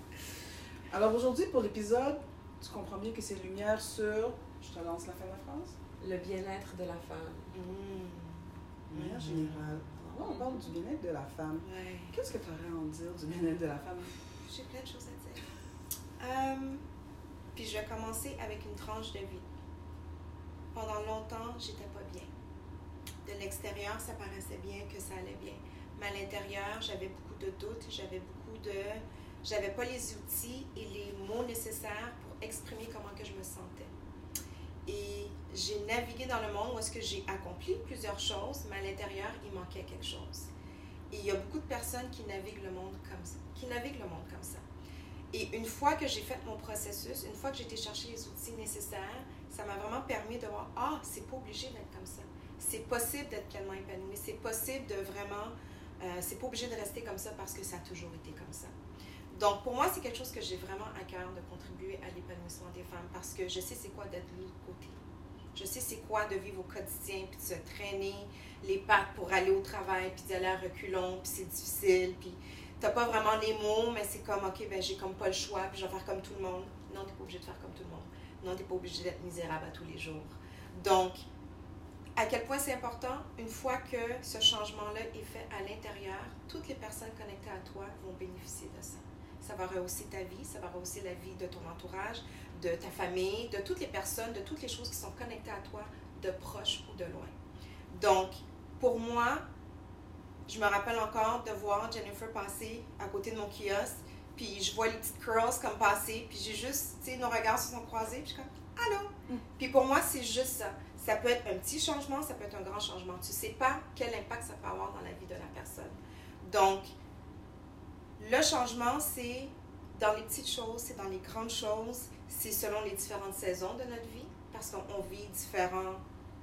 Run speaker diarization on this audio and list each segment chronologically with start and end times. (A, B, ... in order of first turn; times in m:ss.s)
0:00.9-0:05.8 A
0:06.0-0:07.5 B
0:07.5-0:10.1 C
0:08.9-0:14.2 A
0:10.2-0:10.6 B
0:11.6-0:12.2 C
0:14.4-0:15.5 C
0:16.2-0:16.8 C
0:17.6-0:19.5 C
0:20.7-0:22.3 C
0:23.2-0:33.9 C
0:34.9-0:40.5 C
0:41.1-0:44.6 C
0:45.3-0:58.7 C
0:59.3-1:05.0 C
1:05.5-1:21.2 C
1:22.2-1:37.4 C
1:37.9-1:39.4 C
1:40.5-1:56.9 C
1:58.2-2:06.0 C